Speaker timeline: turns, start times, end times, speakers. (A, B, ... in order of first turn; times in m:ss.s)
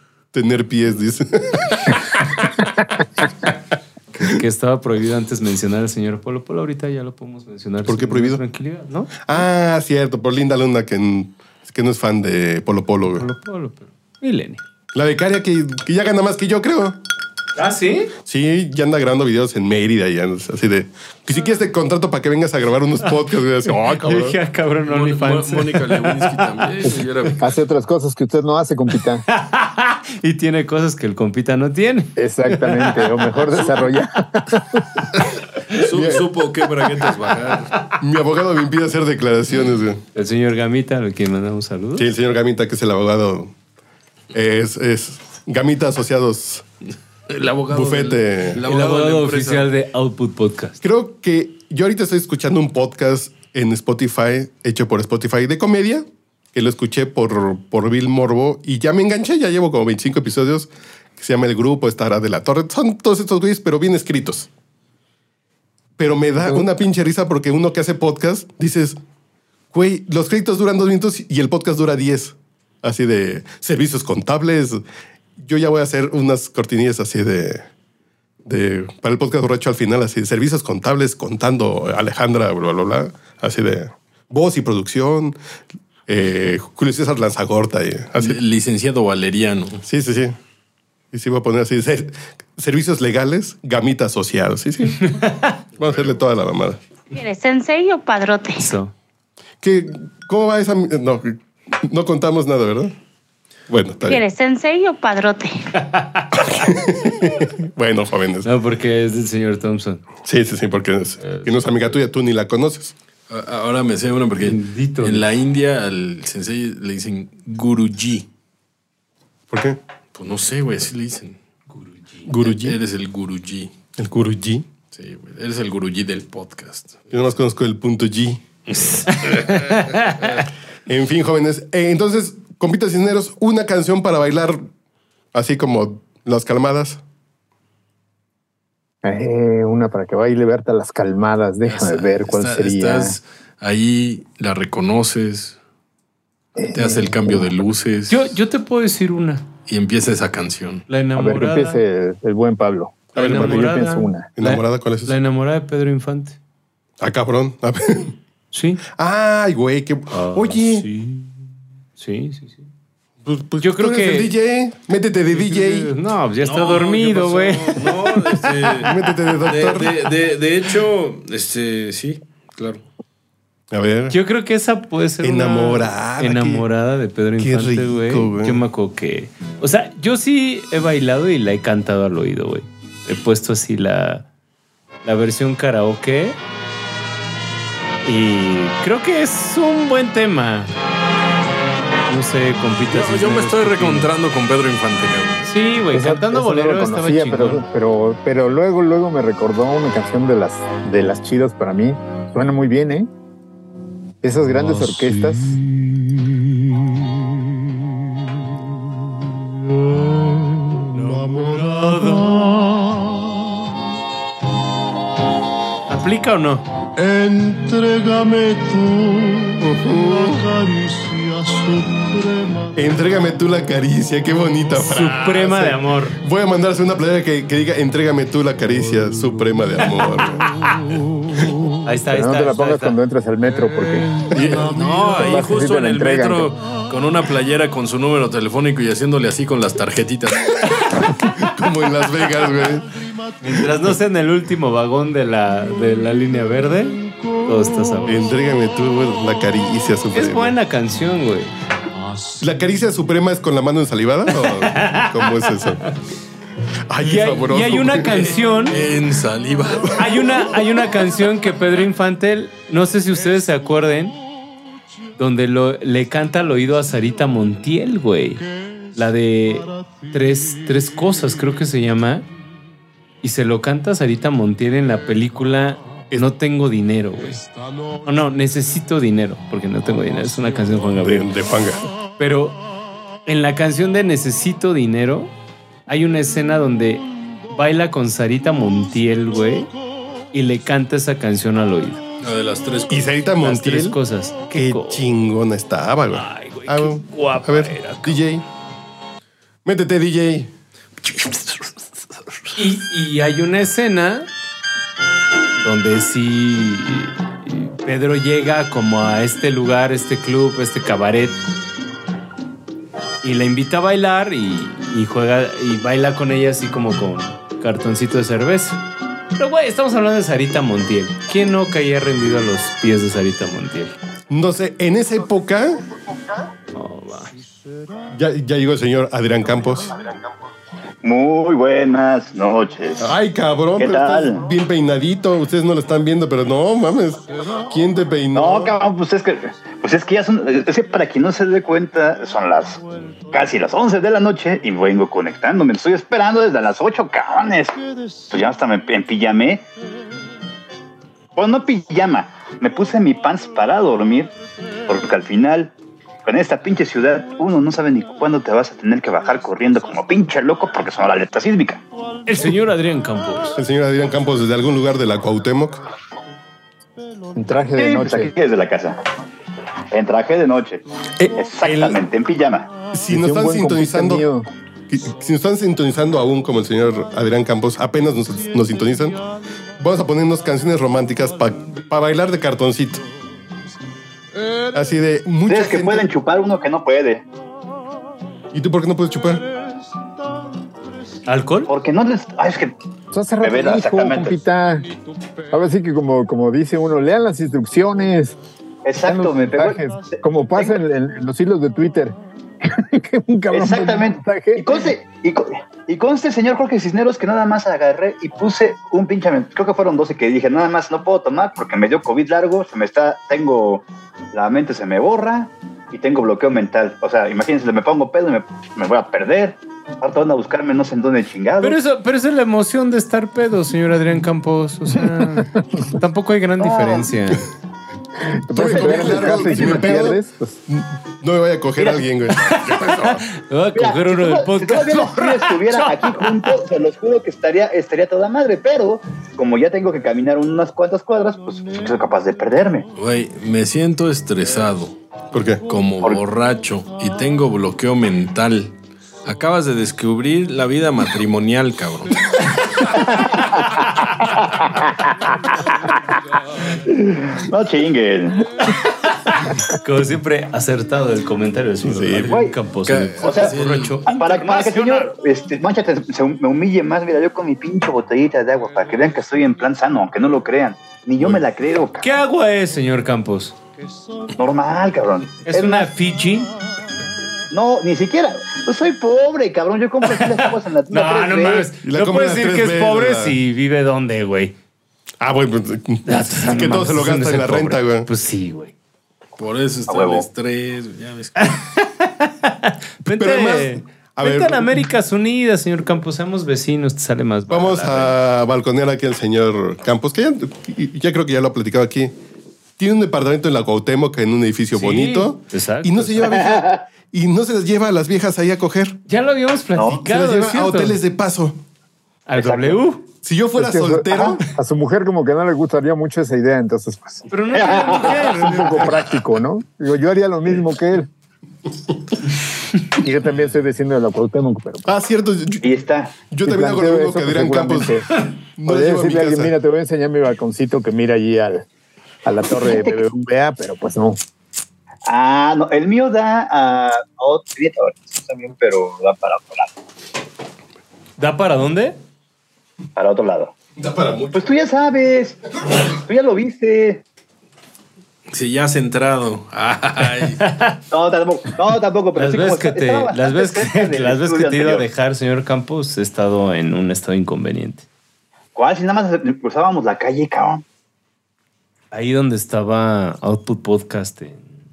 0:00.3-0:02.5 A
0:04.1-0:09.5 B
0:07.9-0:08.4 A
0:09.2-0:13.2 A
0:13.1-0:14.6 B
0:14.9-0:17.0 A
0:17.6-0:18.1 B
0:18.2-0:24.4 A
0:23.7-0:26.4 B
0:24.9-0:27.5 C
0:27.4-0:29.2 D
0:29.3-0:33.9 B
0:32.2-0:35.0 D
0:35.8-0:37.7 C
0:35.9-0:36.2 D
0:38.0-0:40.0 A
0:40.1-0:42.1 B
0:42.0-0:43.5 A
0:44.3-0:46.6 A
0:47.3-0:49.7 C
0:47.7-0:48.6 A
0:48.6-0:50.8 B
0:50.8-1:04.5 A
1:06.0-1:09.0 A
1:09.7-1:14.8 A
1:15.4-1:17.6 A
1:18.5-1:25.4 A
1:26.1-1:28.4 A
1:28.2-1:29.8 C
1:29.9-1:30.4 A
1:31.1-1:35.0 A
1:35.0-1:35.6 B
1:35.8-1:36.2 C
1:35.8-1:36.8 A
1:37.1-1:38.6 E
1:38.6-1:38.9 B
1:39.6-1:42.9 A
1:43.7-1:44.2 A
1:44.0-1:45.6 E
1:45.8-1:46.3 B
1:46.3-1:48.5 A
1:48.4-1:50.0 B
1:50.2-1:52.9 A
1:51.2-1:51.6 B
1:53.3-1:58.2 C
1:54.4-1:55.3 B
1:59.5-1:59.8 A
2:00.1-2:01.4 C
2:01.7-2:02.3 B
2:02.3-2:02.8 A
2:02.4-2:03.8 C
2:04.0-2:04.7 A
2:04.9-2:07.3 C
2:07.1-2:08.4 A
2:08.7-2:10.4 C
2:09.2-2:10.3 B
2:10.9-2:14.6 A
2:15.3-2:17.0 A
2:19.0-2:23.2 D
2:21.6-2:25.6 C
2:26.6-2:27.4 D
2:26.7-2:28.3 C
2:28.1-2:29.4 B
2:29.7-2:30.8 C
2:30.9-2:31.8 B
2:31.2-2:34.3 D
2:33.1-2:36.4 B
2:33.2-2:33.6 A
2:34.4-2:35.1 A
2:37.0-2:38.1 A
2:38.5-2:38.8 B
2:39.0-2:40.9 A
2:40.1-2:41.3 B
2:42.0-2:42.6 B
2:43.2-2:45.9 A
2:43.6-2:44.3 B
2:45.3-2:48.4 B
2:46.4-2:52.8 C
2:48.8-2:50.0 A
2:53.7-2:54.2 A
2:54.1-3:04.2 B
2:55.2-2:56.6 A
2:57.4-2:58.6 A
3:05.0-3:06.4 B
3:08.0-3:10.7 B
3:12.1-3:14.1 B
3:12.9-3:15.5 C
3:15.5-3:17.6 B
3:15.9-3:23.1 D
3:24.2-3:25.6 D
3:30.9-3:32.4 B
3:35.9-3:36.7 B
3:37.0-3:39.5 F
3:39.6-3:40.4 A
3:40.6-3:42.6 F
3:42.8-3:50.5 A
3:44.7-3:46.2 B
3:51.8-3:53.0 B
3:52.1-3:56.5 D
3:54.3-4:00.5 C
4:01.2-4:02.9 A
4:03.4-4:08.1 B
4:08.0-4:10.5 A
4:10.1-4:11.5 B
4:12.4-4:15.8 A
4:14.3-4:15.6 B
4:16.9-4:18.2 A
4:17.0-4:18.8 B
4:18.3-4:20.0 C
4:20.0-4:24.2 B
4:25.2-4:32.2 B
4:33.2-4:37.4 B
4:38.0-4:41.3 B
4:41.0-4:41.8 A
4:42.2-4:42.6 B
4:43.2-4:45.3 B
4:45.9-4:49.7 B
4:50.3-4:52.0 B
4:52.2-4:53.2 C
4:52.9-4:54.0 A
4:53.4-4:55.1 B
4:54.5-4:58.4 A
4:56.1-4:58.2 B
4:59.6-5:00.5 A
5:02.6-5:04.3 B
5:05.6-5:11.4 B
5:13.2-5:18.8 B
5:19.4-5:24.0 B
5:24.3-5:25.8 A
5:26.7-5:27.3 B
5:28.1-5:30.0 A
5:31.0-5:33.1 G
5:33.0-5:38.8 A
5:33.8-5:34.5 G
5:38.3-5:47.8 G
5:48.3-5:49.6 G
5:51.4-5:54.3 G
5:54.9-5:55.7 G
5:56.2-6:01.8 G
6:02.2-6:03.6 B
6:03.6-6:05.8 A
6:07.4-6:08.3 D
6:07.8-6:09.0 G
6:09.9-6:10.8 G
6:11.2-6:12.0 A
6:11.4-6:12.7 G
6:12.9-6:14.2 A
6:13.1-6:14.5 D
6:14.9-6:19.2 A
6:19.8-6:23.0 A
6:24.7-6:26.0 A
6:25.5-6:27.2 G
6:28.5-6:29.4 A
6:31.2-6:31.7 B
6:31.7-6:32.7 G
6:33.1-6:34.8 D
6:33.4-6:34.4 G
6:35.5-6:38.4 D
6:38.8-6:39.8 G
6:39.0-6:44.9 D
6:43.5-7:01.8 G
7:01.6-7:07.4 B
7:06.6-7:07.1 G
7:08.3-7:10.6 D
7:08.5-7:13.2 A
7:08.7-7:10.0 G
7:11.8-7:12.0 G
7:12.4-7:16.5 B
7:13.8-7:22.9 G
7:23.0-7:25.0 C
7:25.3-7:25.6 A
7:25.7-7:32.1 C
7:36.8-7:38.5 G
7:39.3-7:45.1 B
7:41.8-7:42.3 A
7:42.3-7:42.6 G
7:42.8-7:44.0 C
7:43.2-7:52.1 G
7:52.0-7:53.5 B
7:54.4-7:55.9 G
7:55.5-7:56.5 B
7:57.5-8:01.7 G
8:00.1-8:04.5 B
8:01.8-8:03.4 A
8:05.2-8:08.1 A
8:06.0-8:08.7 B
8:09.4-8:11.6 C
8:09.9-8:10.3 G
8:11.4-8:18.2 B
8:13.0-8:14.8 A
8:17.5-8:22.1 A
8:22.8-8:29.0 A
8:24.8-8:26.3 B
8:26.2-8:26.8 G
8:29.1-8:31.0 B
8:29.8-8:30.0 G
8:30.0-8:31.6 A
8:32.3-8:33.0 B
8:32.4-8:32.8 G
8:33.2-8:34.4 A
8:33.6-8:37.2 D
8:37.3-8:39.0 B
8:37.5-8:38.6 G
8:37.9-8:41.1 D
8:43.0-8:44.8 D
8:44.9-8:45.7 A
8:45.6-8:46.2 G
8:46.2-8:48.0 A
8:46.4-8:48.0 D
8:48.6-8:49.5 A
8:48.7-8:51.7 D
8:52.2-8:54.2 D
8:52.6-8:53.0 G
8:55.1-8:59.7 G
9:01.2-9:02.0 B
9:03.0-9:03.5 G
9:03.8-9:04.4 A
9:04.3-9:07.0 G
9:08.3-9:10.4 C
9:10.4-9:10.8 B
9:10.9-9:14.8 G
9:12.2-9:17.8 B
9:18.5-9:20.6 G
9:21.9-9:24.4 B